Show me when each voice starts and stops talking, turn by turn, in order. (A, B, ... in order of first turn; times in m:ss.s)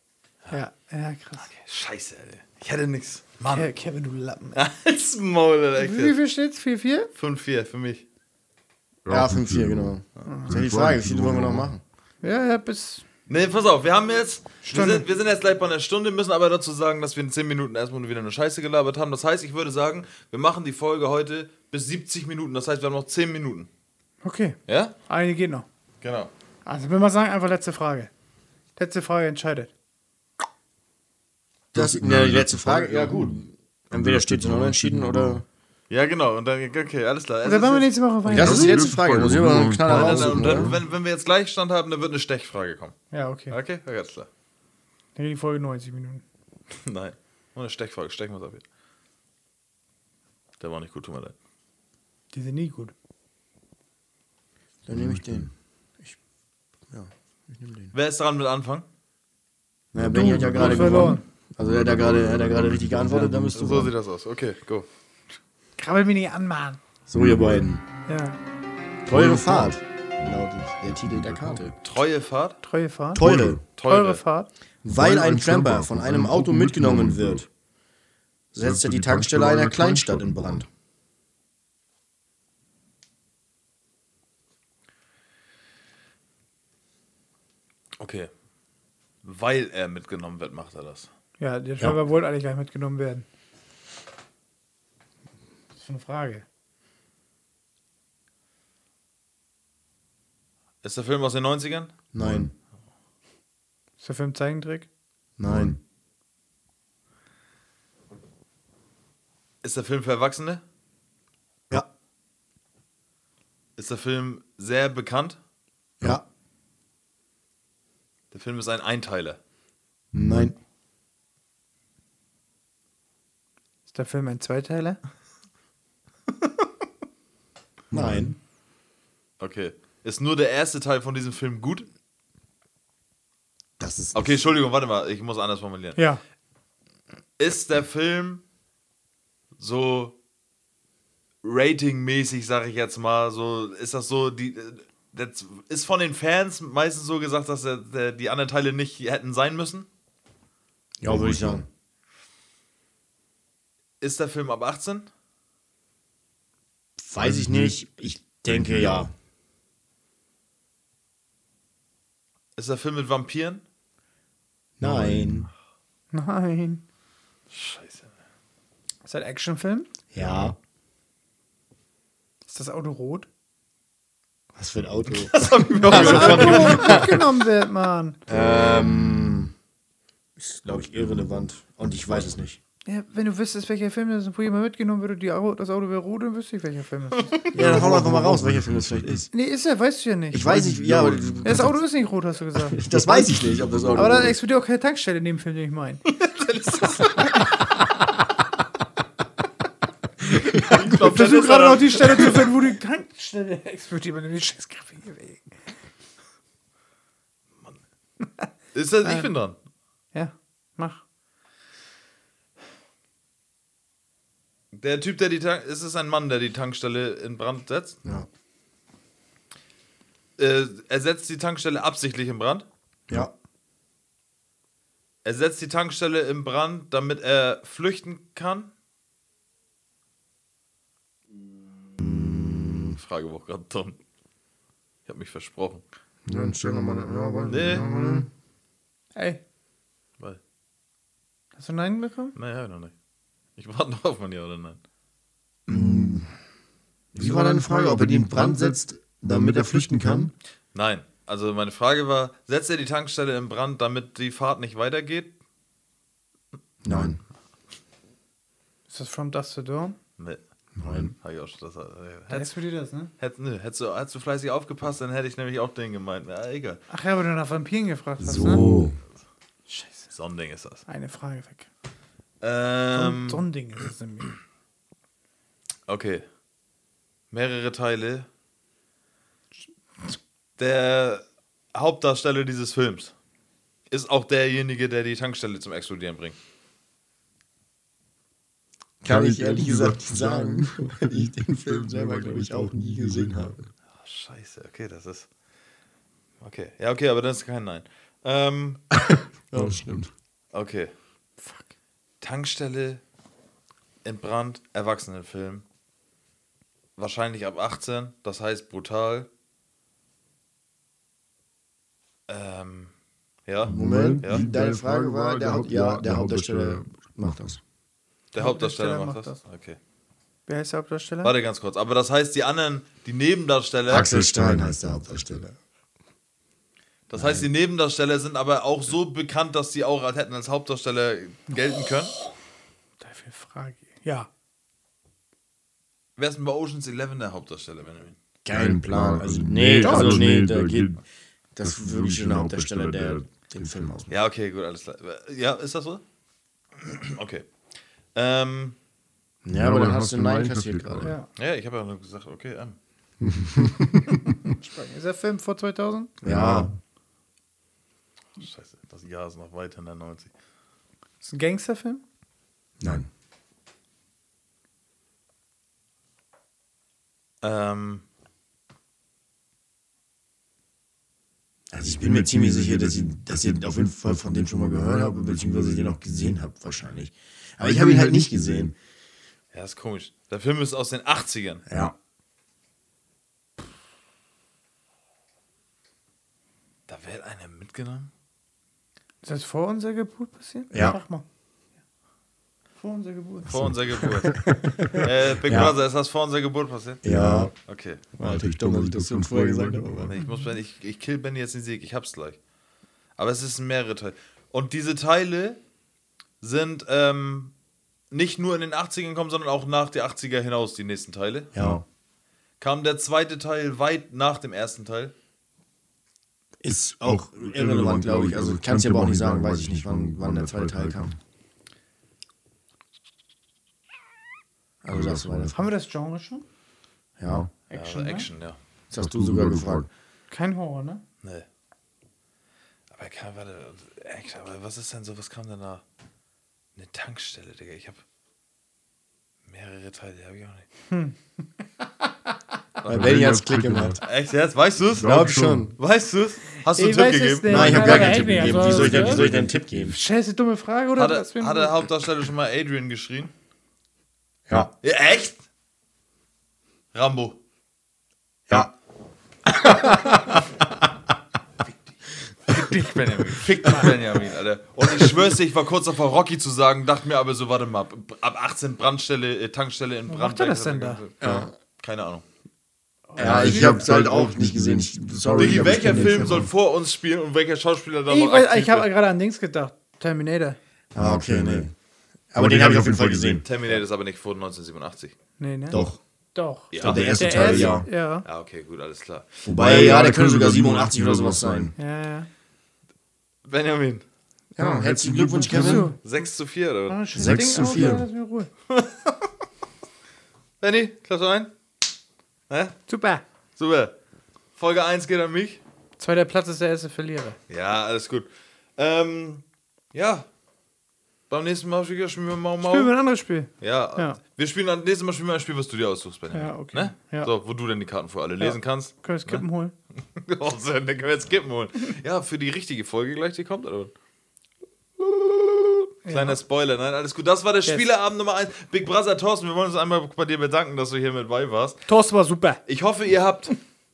0:00.5-0:01.5 A
0:01.4-0:03.7 B
0:03.5-0:04.6 A
0:04.6-0:06.2 B
0:05.8-0:07.1 A
0:07.2-0:08.0 B
0:09.0-0:11.7 C
0:09.1-0:11.8 D
0:12.2-0:13.0 A
0:13.3-0:23.7 B
0:14.6-0:15.0 A
0:24.2-0:25.7 A
0:24.7-0:24.9 B
0:26.0-0:26.3 B
0:26.6-0:28.1 A
0:28.8-0:29.7 A
0:31.7-0:35.4 D
0:31.8-0:33.3 C
0:34.1-0:35.4 C
0:35.9-0:37.9 B
0:37.4-0:39.0 A
0:38.3-0:40.8 C
0:38.3-0:40.8 D
0:39.8-0:43.0 B
0:43.1-0:43.6 A
0:43.5-0:44.3 B
0:45.2-0:46.2 A
0:46.8-0:48.6 B
0:50.6-0:51.3 B
0:52.3-0:52.9 A
0:54.9-0:55.5 D
0:56.9-0:57.9 D
0:57.9-0:58.9 B
0:59.9-1:03.9 D
1:00.0-1:03.6 C
1:00.1-1:01.2 A
1:03.5-1:04.9 B
1:05.8-1:06.8 A
1:07.1-1:07.8 D
1:07.2-1:07.7 C
1:08.1-1:08.4 A
1:09.1-1:11.7 D
1:09.1-1:11.8 C
1:11.8-1:12.6 B
1:12.6-1:13.2 A
1:13.1-1:13.6 D
1:13.2-1:13.6 C
1:13.8-1:14.2 B
1:13.8-1:14.5 A
1:14.8-1:17.5 D
1:14.9-1:17.4 C
1:18.5-1:20.7 D
1:18.6-1:20.6 C
1:28.0-1:28.3 B
1:29.2-1:31.1 B
1:31.4-1:33.3 A
1:35.8-1:36.4 A
1:40.8-1:41.9 B
1:42.1-1:42.5 D
1:44.0-1:44.9 A
1:45.4-1:45.8 D
1:49.6-1:50.6 B
1:53.8-1:55.4 B
1:58.3-1:59.4 B
2:00.1-2:00.5 D
2:03.9-2:05.0 A
2:07.9-2:08.4 D
2:09.4-2:11.9 B
2:13.8-2:14.4 D
2:14.1-2:16.0 B
2:16.0-2:16.2 A
2:17.4-2:18.4 B
2:19.6-2:20.2 B
2:21.4-2:29.9 B
2:31.0-2:31.7 D
2:31.1-2:31.6 C
2:34.0-2:35.1 B
2:37.0-2:39.1 D
2:37.2-2:37.7 C
2:38.5-2:39.0 C
2:42.6-2:43.6 B
2:44.8-2:45.5 D
2:44.8-2:45.5 C
2:46.1-2:46.8 A
2:47.5-2:48.1 B
2:49.0-2:49.9 A
2:50.1-2:50.6 D
2:50.2-2:50.5 C
2:52.5-2:53.3 A
2:54.6-2:57.2 D
2:55.2-2:57.1 B
2:55.9-2:58.2 A
2:58.3-2:59.5 D
3:00.4-3:02.6 D
3:02.9-3:07.5 A
3:07.2-3:08.0 B
3:07.5-3:09.3 D
3:07.6-3:08.7 C
3:09.3-3:10.7 A
3:10.3-3:11.8 D
3:10.8-3:11.4 C
3:11.4-3:12.9 A
3:12.6-3:14.4 D
3:13.7-3:14.0 C
3:14.0-3:16.1 A
3:16.2-3:17.2 B
3:20.5-3:22.5 B
3:20.5-3:20.9 D
3:20.9-3:25.6 A
3:28.7-3:29.6 B
3:29.0-3:29.3 A
3:30.1-3:31.0 A
3:34.7-3:38.0 B
3:40.4-3:42.6 B
3:45.2-3:48.7 B
3:52.0-3:53.0 D
3:53.0-3:54.0 B
3:55.1-3:55.8 B
3:56.3-3:58.3 D
3:57.5-3:58.2 B
3:59.2-3:59.4 A
4:01.6-4:02.4 A
4:02.4-4:02.9 B
4:03.6-4:04.8 B
4:05.7-4:06.3 D
4:07.1-4:10.3 D
4:07.2-4:10.3 C
4:10.7-4:15.3 B
4:16.8-4:17.2 D
4:18.9-4:20.0 A
4:20.8-4:21.1 D
4:21.0-4:22.5 B
4:22.3-4:23.1 A
4:23.2-4:26.8 B
4:26.9-4:28.7 A
4:28.2-4:29.0 D
4:28.4-4:28.9 C
4:29.7-4:30.1 A
4:30.1-4:30.8 B
4:30.9-4:31.7 A
4:32.4-4:33.4 B
4:32.9-4:34.3 A
4:35.9-4:36.2 B
4:37.3-4:38.3 B
4:40.6-4:43.1 B
4:43.9-4:46.4 B
4:49.0-4:53.6 D
4:49.1-4:53.7 C
4:54.0-4:55.3 B
4:56.4-4:58.8 B
4:59.5-5:00.1 D
4:59.6-5:00.1 C
5:00.5-5:00.9 B
5:01.4-5:01.7 A
5:02.2-5:03.0 B
5:04.0-5:05.6 B
5:07.0-5:09.3 B
5:12.3-5:12.9 B
5:13.5-5:14.5 B
5:13.6-5:17.6 D
5:13.6-5:17.6 C
5:18.3-5:19.8 B
5:18.4-5:19.4 A
5:20.5-5:21.3 A
5:21.2-5:24.1 B
5:23.9-5:25.6 D
5:23.9-5:25.4 C
5:27.1-5:32.2 B
5:27.2-5:27.5 D
5:33.0-5:34.3 A
5:36.2-5:38.2 B
5:38.4-5:40.9 D
5:38.5-5:41.0 C
5:39.8-5:40.3 A
5:41.6-5:44.1 D
5:41.6-5:44.1 C
5:44.1-5:46.0 B
5:46.8-5:47.5 B
5:48.2-5:48.8 B
5:49.4-5:51.1 D
5:49.5-5:51.2 C
5:51.0-5:51.3 A
5:51.4-5:52.8 B
5:53.2-5:54.2 D
5:54.5-5:56.1 A
5:56.2-5:56.7 D
5:56.2-5:56.7 C
5:58.4-6:00.3 B
6:01.2-6:02.0 A
6:02.8-6:03.1 D
6:07.4-6:08.0 B
6:11.7-6:18.7 D
6:11.8-6:17.0 C
6:17.6-6:18.7 C
6:19.5-6:21.6 B
6:21.7-6:21.9 D
6:26.9-6:28.1 B
6:29.2-6:31.2 A
6:30.7-6:31.0 D
6:32.8-6:33.7 A
6:33.5-6:37.0 B
6:33.5-6:34.1 C
6:34.2-6:35.8 D
6:37.0-6:37.5 D
6:37.0-6:37.5 C
6:37.6-6:38.0 B
6:38.1-6:40.2 D
6:38.2-6:40.1 C
6:40.1-6:42.4 B
6:40.2-6:40.5 A
6:43.2-6:45.6 B
6:46.4-6:47.5 B
6:48.1-6:51.5 B
6:51.5-6:51.8 D
6:51.6-6:51.8 C
6:52.6-6:55.1 B
6:56.6-7:01.1 D
6:57.0-7:01.2 C
7:04.8-7:05.6 D
7:04.9-7:05.6 C
7:05.5-7:06.4 A
7:07.2-7:07.5 D
7:07.3-7:07.5 C
7:07.7-7:08.3 A
7:07.7-7:08.6 B
7:08.9-7:09.9 D
7:09.0-7:09.9 C
7:10.3-7:11.0 A
7:12.9-7:15.8 B
7:16.8-7:18.0 B
7:19.5-7:20.7 B
7:20.9-7:21.2 A
7:22.8-7:24.0 D
7:22.9-7:24.0 C
7:24.0-7:25.2 B
7:24.9-7:25.7 C
7:25.0-7:25.7 D
7:25.8-7:28.1 B
7:26.7-7:29.3 A
7:27.5-7:30.0 D
7:27.5-7:30.0 C
7:30.0-7:31.8 A
7:31.0-7:33.3 B
7:34.8-7:35.4 B
7:36.9-7:37.4 B
7:39.6-7:40.4 D
7:42.5-7:52.2 B
7:43.5-7:43.9 A
7:50.1-7:51.0 A
7:51.2-7:51.5 D
7:53.1-7:54.1 A
7:53.2-7:56.5 D
7:53.2-7:56.5 C
7:55.4-7:58.9 B
7:58.1-8:00.6 A
8:00.9-8:01.7 D
8:01.0-8:01.7 C
8:02.3-8:03.5 D
8:02.4-8:03.5 C
8:03.4-8:05.1 B
8:05.4-8:05.8 A
8:05.7-8:06.0 D
8:06.4-8:08.3 A
8:06.7-8:10.0 B
8:06.8-8:07.9 D
8:06.8-8:07.9 C
8:09.4-8:11.7 C
8:09.5-8:11.7 D
8:11.8-8:12.3 A
8:13.5-8:14.0 B
8:14.6-8:15.9 D
8:14.6-8:15.9 C
8:15.4-8:16.3 A
8:15.9-8:17.0 B
8:16.9-8:18.5 A
8:17.2-8:18.1 D
8:17.2-8:18.0 C
8:18.7-8:19.3 B
8:20.6-8:21.5 B
8:22.5-8:22.8 B
8:22.9-8:23.2 A
8:23.6-8:23.9 B
8:24.6-8:25.6 B
8:26.0-8:27.4 A
8:27.5-8:29.4 B
8:29.9-8:30.3 B
8:31.3-8:32.9 B
8:32.6-8:34.2 A
8:33.6-8:39.4 B
8:36.3-8:37.3 A
8:38.4-8:39.7 A
8:40.1-8:43.9 B
8:45.0-8:51.8 B
8:46.0-8:46.4 A
8:51.9-8:52.6 A
8:52.7-8:53.6 B